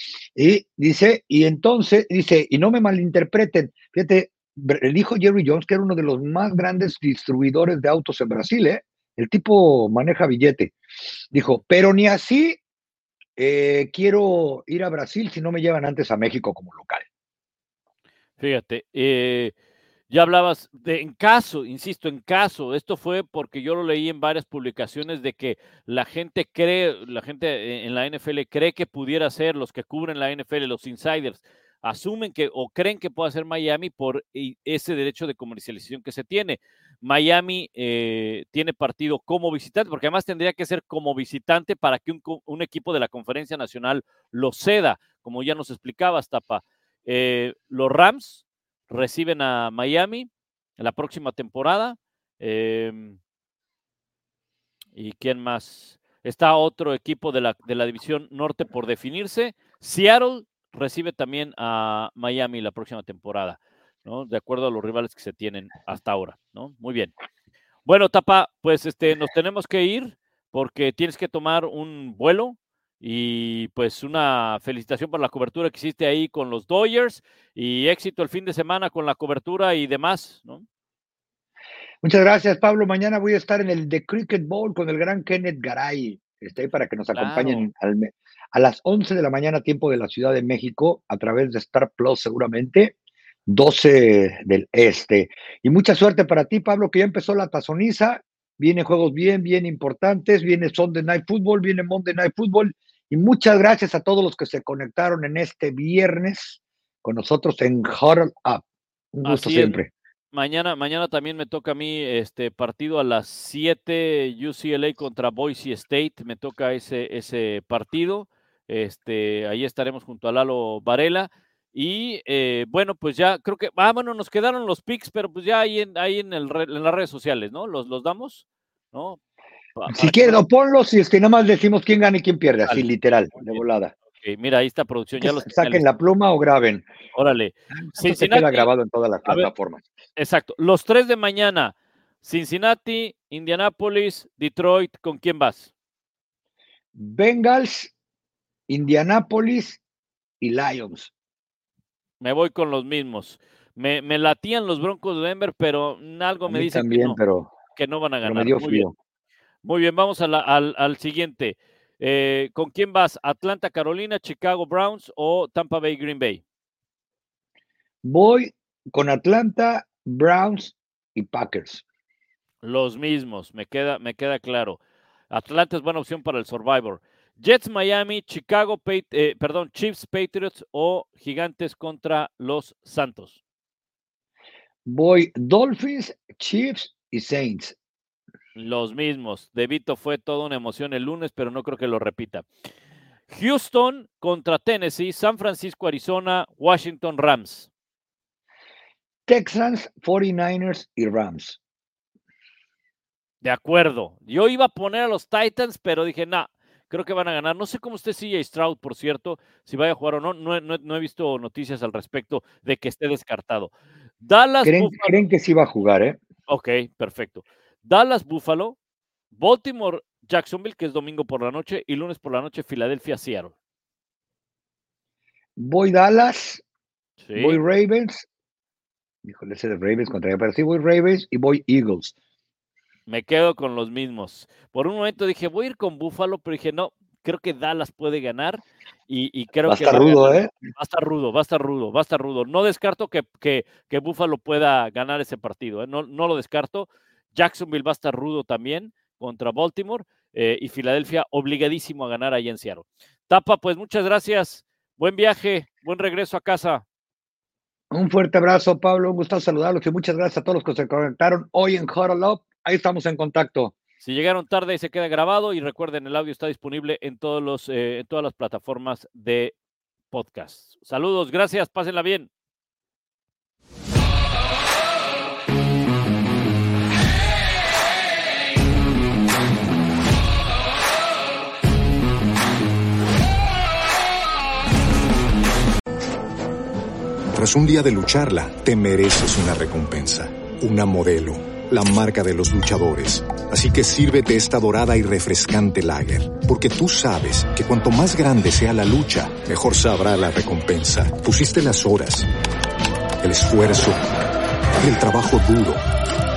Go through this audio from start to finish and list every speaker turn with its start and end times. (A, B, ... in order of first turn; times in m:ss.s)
0:00.4-0:10.7 A
0:11.3-0:12.6 A
0:13.4-0:17.0 A
0:18.4-0:19.5 B
0:20.1-0:53.2 B
0:55.0-1:07.1 B
1:07.8-1:20.6 B
1:22.0-1:32.9 A
1:27.1-1:27.7 B
1:33.5-1:49.9 A
1:49.2-2:09.2 B
2:09.8-2:10.4 B
2:09.9-2:13.9 A
2:12.6-2:13.6 B
2:14.2-2:15.8 B
2:15.2-2:16.9 A
2:17.1-2:18.7 B
2:17.8-2:19.8 A
2:20.2-2:25.7 B
2:26.9-2:27.9 A
2:28.7-2:29.8 A
2:30.4-2:31.1 A
2:32.2-2:37.2 B
2:36.5-2:37.5 A
2:37.7-2:38.9 B
2:38.2-2:38.9 A
2:39.6-2:46.4 B
2:48.0-2:51.8 A
2:52.6-2:54.8 B
2:55.3-3:03.4 B
3:04.8-3:07.8 A
3:08.6-3:12.5 B
3:13.3-3:17.7 B
3:19.3-3:21.6 A
3:23.4-3:35.2 B
3:34.6-3:36.2 A
3:36.5-3:38.8 B
3:39.3-3:43.5 B
3:45.6-3:46.6 A
3:47.2-3:47.6 B
3:47.3-3:48.2 A
3:49.2-3:52.1 A
3:53.1-4:16.8 B
3:59.7-4:00.5 A
4:17.9-4:23.7 A
4:24.0-4:29.5 B
4:30.1-4:32.3 B
4:47.3-5:02.3 C
5:03.2-5:04.0 C
5:04.8-5:05.8 C